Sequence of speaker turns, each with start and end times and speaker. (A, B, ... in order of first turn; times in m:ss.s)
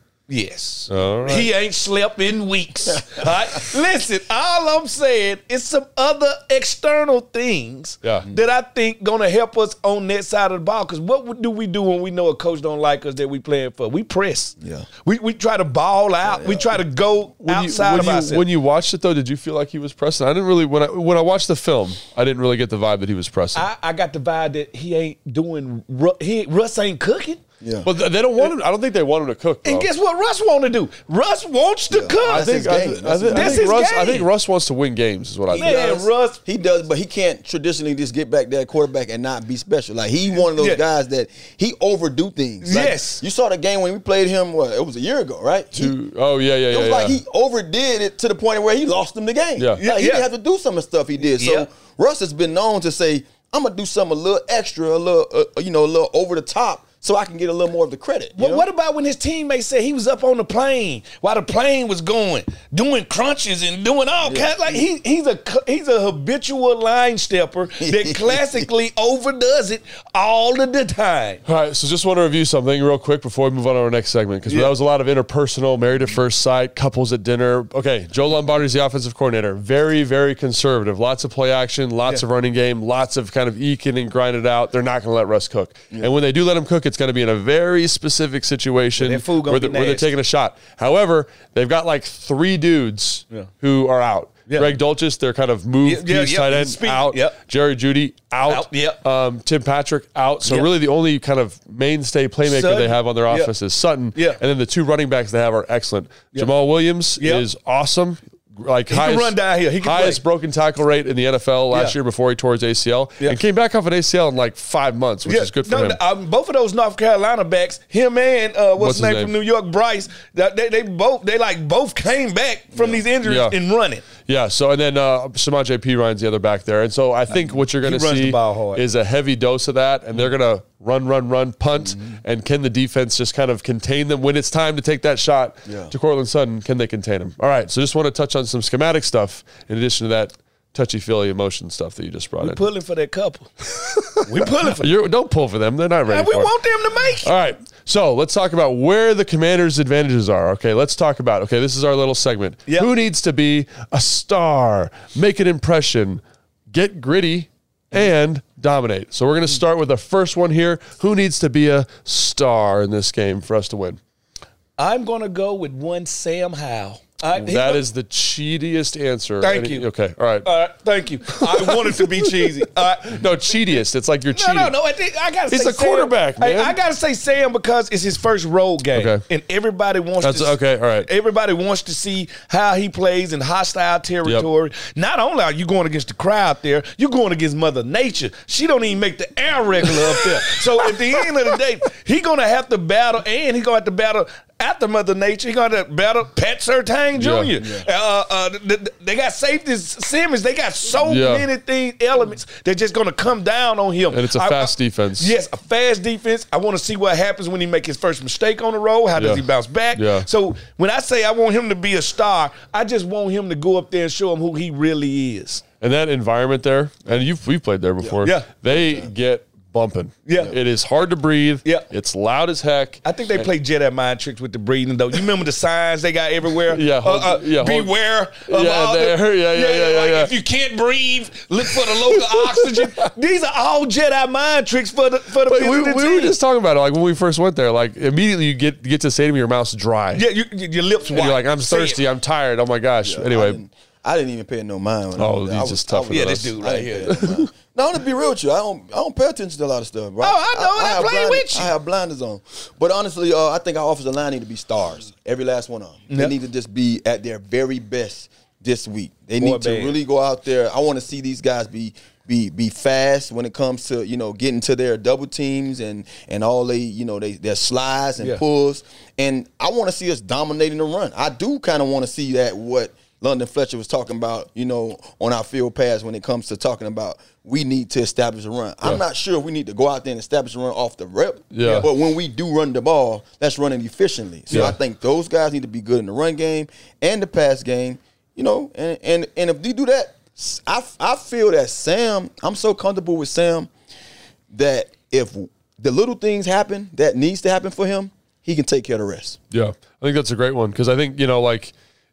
0:00.3-0:18.4 A
0:00.9-0:01.5 B
0:08.0-0:08.3 B
0:14.6-0:14.9 C
0:16.2-0:16.8 C
0:17.4-0:23.6 B
0:23.5-0:27.4 A
0:27.6-0:27.9 C
0:27.8-0:29.9 B
0:29.6-0:32.5 A
0:31.9-0:33.7 C
0:32.2-0:36.0 B
0:33.3-0:34.3 A
0:35.5-0:36.4 A
0:35.5-0:46.0 C
0:40.6-0:40.8 A
0:42.6-0:43.2 A
0:45.7-0:47.2 B
0:46.7-0:58.6 C
0:49.8-0:50.2 A
0:51.4-0:51.7 A
0:58.4-1:11.4 A
1:04.2-1:04.8 C
1:07.8-1:08.6 C
1:11.4-1:56.0 B
1:14.5-1:14.7 A
1:29.0-1:30.1 A
1:34.5-1:34.7 A
1:35.8-1:37.4 A
1:38.5-1:39.0 A
1:42.4-1:43.5 A
1:44.1-1:44.4 A
1:47.2-1:47.4 A
1:48.9-1:50.2 A
1:55.2-2:04.0 A
1:58.8-1:59.3 B
2:02.7-2:03.0 C
2:03.2-2:03.6 B
2:04.2-2:22.6 B
2:07.3-2:08.8 A
2:15.7-2:15.9 C
2:22.4-2:23.5 A
2:23.7-2:26.5 B
2:24.2-2:24.9 A
2:26.1-2:27.3 A
2:27.2-2:44.0 B
2:44.8-2:47.8 A
2:47.3-2:50.5 B
2:49.4-2:49.8 A
2:50.4-2:53.2 A
2:51.3-2:54.7 B
2:54.3-3:35.6 A
2:55.5-2:56.8 B
2:58.9-2:59.2 B
3:00.2-3:01.1 B
3:09.9-3:10.9 B
3:17.1-3:17.6 B
3:17.6-3:17.9 C
3:21.0-3:21.4 B
3:24.1-3:25.3 B
3:29.2-3:30.3 B
3:35.8-3:43.5 B
3:38.2-3:38.5 A
3:38.7-3:39.1 C
3:40.3-3:40.5 A
3:43.0-3:56.4 A
3:46.7-3:47.9 B
3:48.4-3:50.3 B
3:51.7-3:53.1 B
3:55.4-4:00.2 B
4:00.2-4:02.0 A
4:01.1-4:03.6 B
4:03.0-4:53.7 C
4:05.2-4:07.4 B
4:06.1-4:07.4 A
4:10.2-4:11.7 A
4:19.4-4:20.0 A
4:41.5-4:41.9 B
4:54.5-4:59.4 C
4:59.5-5:01.7 B